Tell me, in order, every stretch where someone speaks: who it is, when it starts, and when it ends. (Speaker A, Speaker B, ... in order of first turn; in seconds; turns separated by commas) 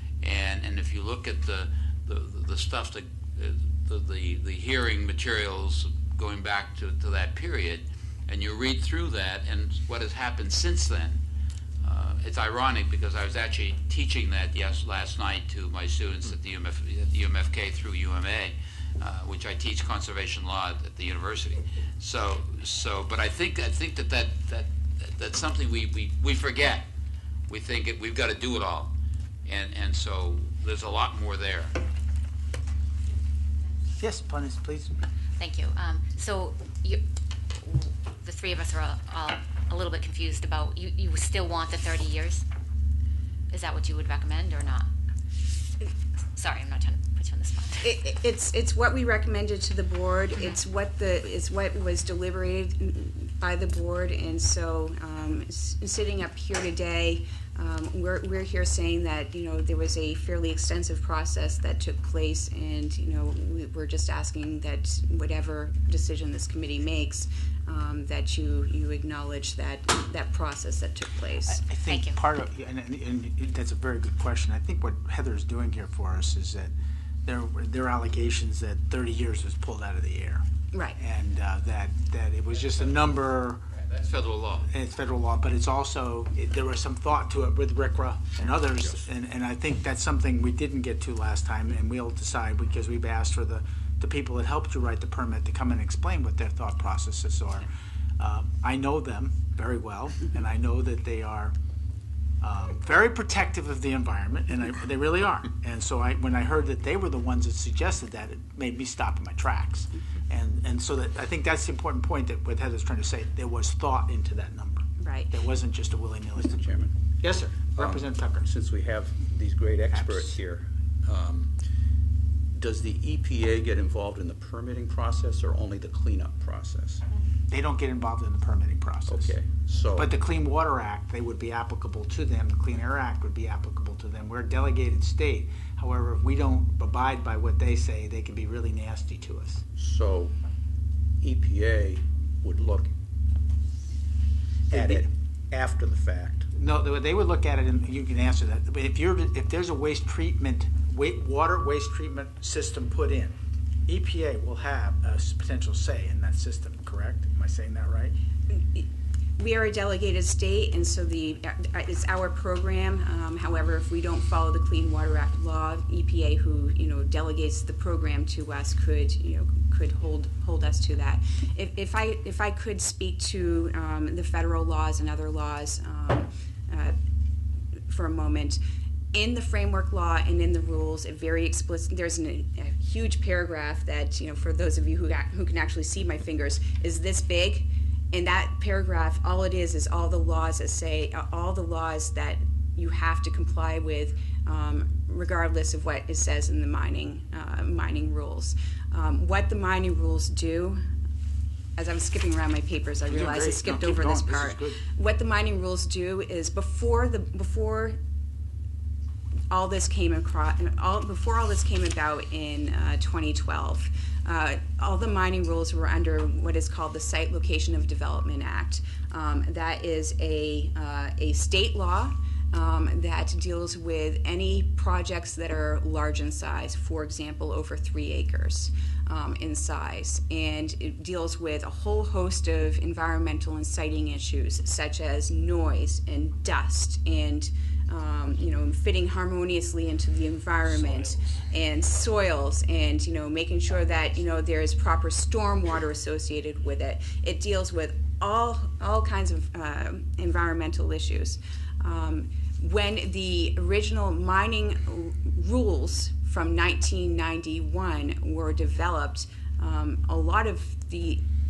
Speaker A: 0.2-11.2, Speaker A: 11.8-26.9, Speaker A: 27.5-28.9, Speaker A: 29.5-31.8, Speaker B: 34.0-34.9, Speaker C: 35.4-37.0, Speaker C: 37.5-42.5, Speaker C: 43.5-44.9, Speaker C: 45.8-48.1, Speaker D: 47.8-71.6, Speaker B: 71.5-76.7, Speaker C: 71.8-72.2, Speaker B: 77.2-80.4, Speaker B: 81.0-83.6, Speaker A: 83.7-84.7, Speaker B: 84.7-97.7, Speaker E: 88.4-89.0, Speaker B: 98.2-101.6, Speaker B: 102.4-118.5, Speaker D: 115.0-115.3, Speaker E: 116.4-116.9, Speaker E: 117.5-121.6, Speaker B: 119.9-120.4, Speaker E: 122.5-127.0, Speaker B: 127.5-129.4, Speaker E: 129.1-130.1, Speaker B: 129.9-139.6, Speaker E: 139.8-140.3, Speaker E: 141.2-142.9, Speaker B: 144.7-145.1, Speaker E: 144.7-146.5, Speaker B: 146.5-153.4, Speaker B: 153.9-158.2, Speaker D: 158.5-158.9, Speaker D: 159.4-176.9, Speaker D: 177.9-178.6, Speaker D: 179.1-200.8, Speaker D: 201.8-208.0, Speaker B: 203.1-204.8, Speaker D: 209.5-261.2